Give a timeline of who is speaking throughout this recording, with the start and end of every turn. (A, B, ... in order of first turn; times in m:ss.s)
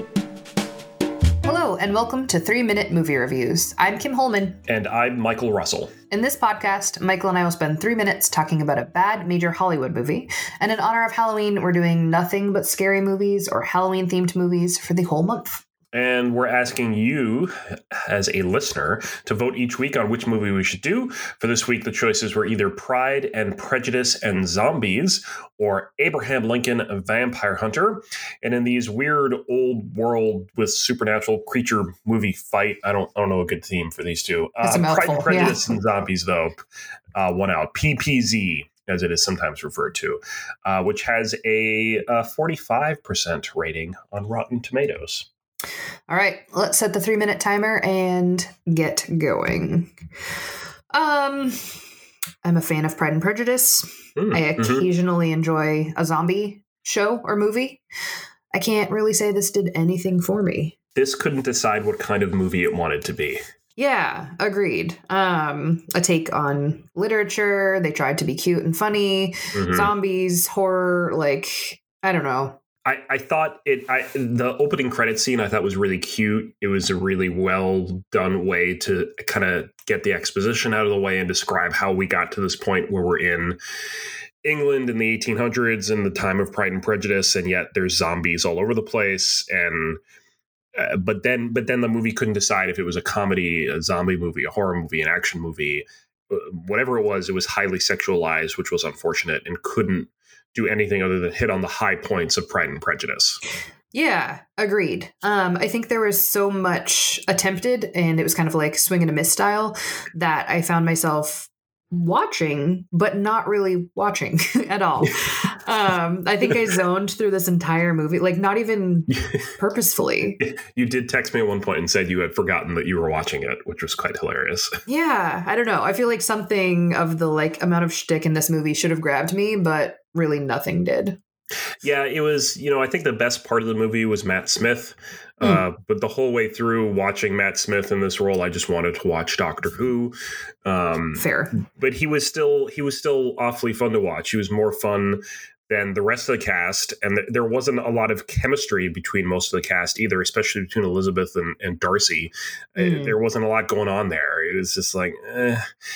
0:01.4-0:04.6 A
0:04.7-0:05.9 B
0:06.1-0:15.6 A
0:15.9-0:36.5 B
0:34.6-0:35.6 A
0:37.2-0:45.3 B
0:46.1-0:49.9 A
0:50.9-0:51.8 A
0:52.4-0:57.8 A
0:54.2-0:54.9 B
0:58.5-1:00.7 A
1:01.0-1:03.4 B
1:03.8-1:12.6 A
1:09.5-1:09.9 B
1:12.8-1:23.6 B
1:24.4-1:30.0 B
1:30.8-1:43.4 B
1:43.9-2:00.4 A
2:00.4-2:04.8 B
2:04.9-2:11.2 A
2:11.8-2:20.1 B
2:20.6-2:35.6 B
2:21.2-2:21.6 A
2:32.8-2:33.1 A